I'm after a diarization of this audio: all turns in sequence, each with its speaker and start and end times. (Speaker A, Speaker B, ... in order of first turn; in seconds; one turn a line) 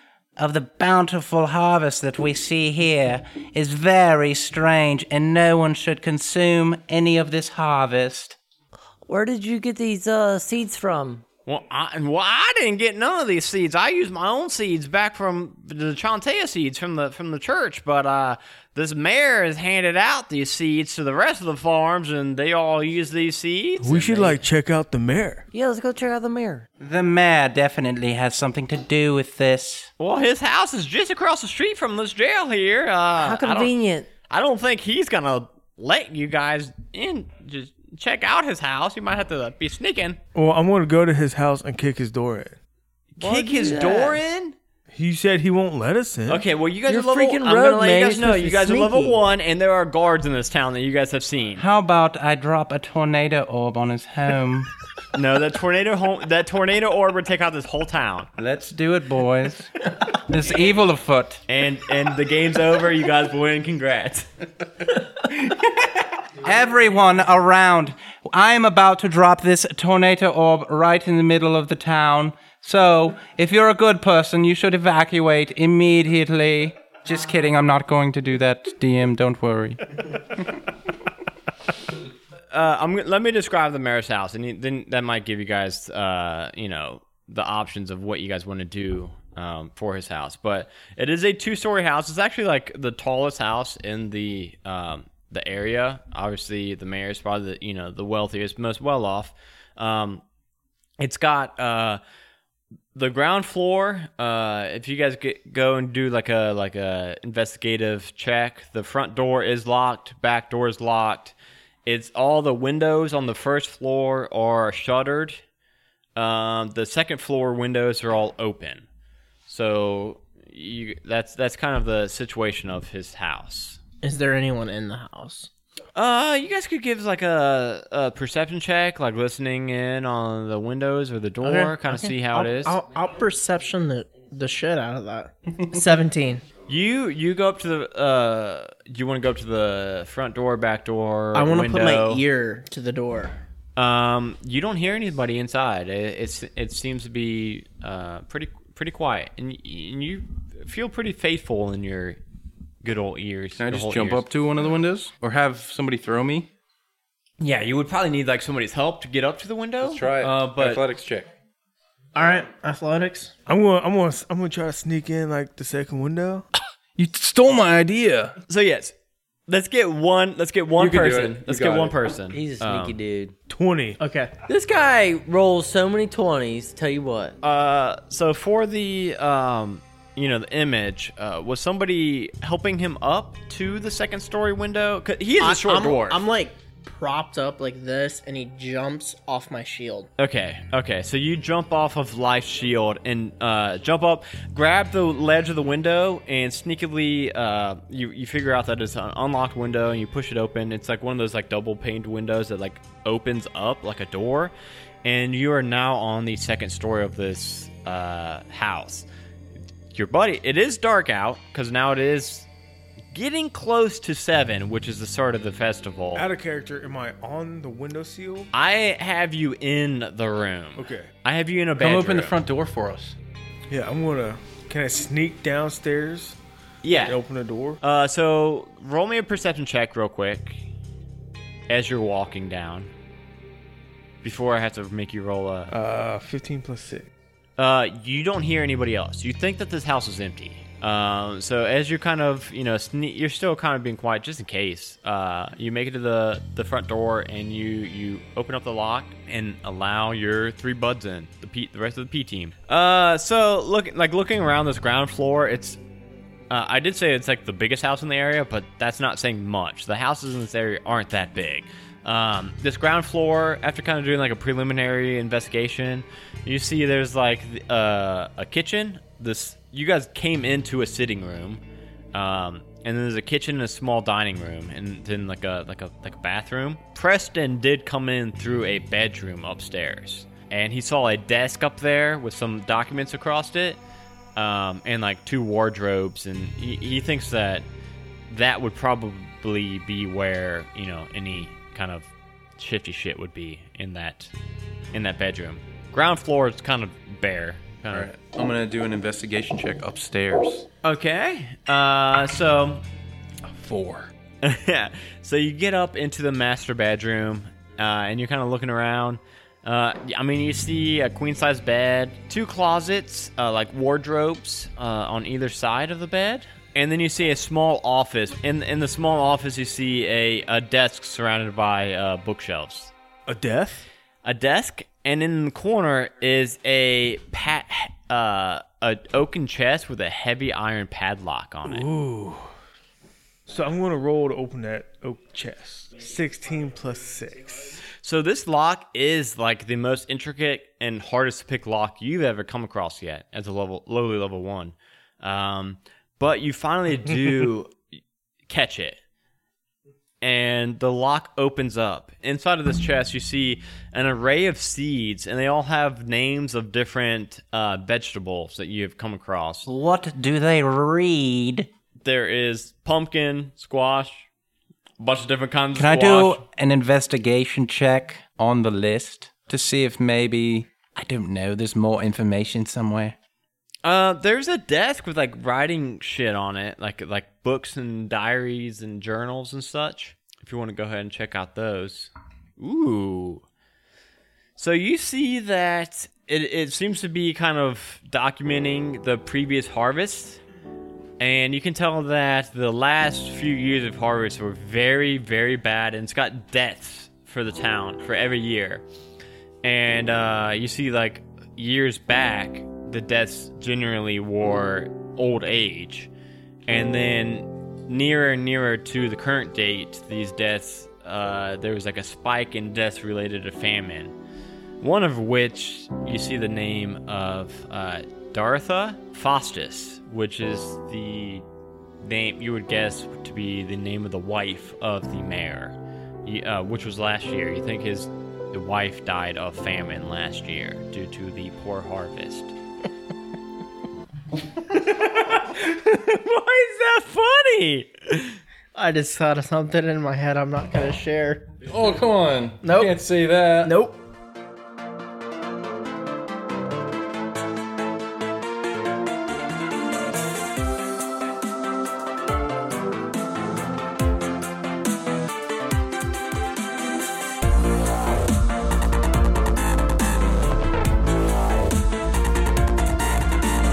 Speaker A: 0.4-8.4
Speaker B: 9.1-11.2
Speaker C: 11.5-24.4
Speaker D: 23.8-25.5
Speaker B: 25.5-26.7
Speaker A: 26.8-29.9
Speaker C: 30.0-33.7
Speaker B: 33.1-34.1
Speaker C: 34.3-40.2
Speaker D: 40.4-42.6
Speaker C: 43.2-44.6
Speaker B: 43.2-44.2
Speaker D: 44.9-46.5
Speaker C: 46.3-51.6
Speaker B: 46.9-49.2
Speaker A: 51.6-54.7
Speaker C: 55.1-58.3
Speaker A: 58.4-61.4
Speaker C: 61.5-64.3
Speaker A: 66.4-79.8
Speaker C: 82.5-100.2
Speaker C: 101.0-102.0
Speaker C: 103.0-111.3
Speaker C: 111.9-115.4
Speaker C: 116.2-118.9
Speaker C: 119.5-123.8
Speaker E: 124.0-125.5
Speaker C: 126.0-132.8
Speaker E: 131.4-136.4
Speaker C: 136.7-142.2
Speaker E: 141.3-143.4
Speaker C: 143.8-152.2
Speaker C: 152.8-154.3
Speaker F: 153.6-156.5
Speaker C: 157.4-160.8
Speaker F: 159.8-161.3
Speaker E: 162.2-163.3
Speaker D: 163.5-166.5
Speaker D: 167.0-168.2
Speaker C: 168.5-168.9
Speaker C: 169.5-173.0
Speaker F: 170.8-172.0
Speaker B: 172.3-173.3
Speaker D: 173.5-174.0
Speaker E: 174.0-174.3
Speaker B: 174.5-177.4
Speaker C: 177.4-186.2
Speaker E: 185.4-190.1
Speaker C: 190.2-209.1
Speaker C: 209.9-212.5
Speaker C: 213.1-216.2
Speaker D: 216.2-218.5
Speaker C: 218.5-222.4
Speaker D: 220.8-221.1
Speaker F: 221.8-223.2
Speaker D: 223.7-226.4
Speaker C: 226.8-227.2
Speaker D: 227.1-227.8
Speaker C: 227.8-230.7
Speaker C: 231.7-232.9
Speaker C: 234.2-235.7
Speaker D: 235.7-237.1
Speaker C: 237.6-255.8
Speaker C: 256.5-271.6
Speaker C: 272.1-283.8
Speaker C: 284.4-287.7
Speaker C: 288.3-294.3
Speaker C: 294.9-298.1
Speaker F: 297.9-300.7
Speaker C: 300.8-302.8
Speaker F: 303.5-304.1
Speaker C: 304.4-322.9
Speaker D: 323.3-323.9
Speaker C: 324.2-331.9
Speaker D: 331.6-332.5
Speaker D: 333.5-337.8
Speaker C: 338.0-347.8
Speaker C: 348.5-349.0
Speaker C: 350.2-359.7
Speaker A: 359.6-361.7
Speaker C: 362.0-364.3
Speaker C: 365.0-366.4
Speaker A: 365.8-373.2
Speaker C: 373.8-383.4
Speaker C: 384.6-390.4
Speaker C: 391.2-398.8
Speaker C: 399.6-406.1
Speaker C: 406.7-414.2
Speaker C: 414.8-421.4
Speaker C: 422.0-432.5
Speaker C: 434.7-438.4
Speaker E: 438.8-441.5
Speaker F: 441.6-443.8
Speaker E: 442.6-443.0
Speaker E: 443.6-444.0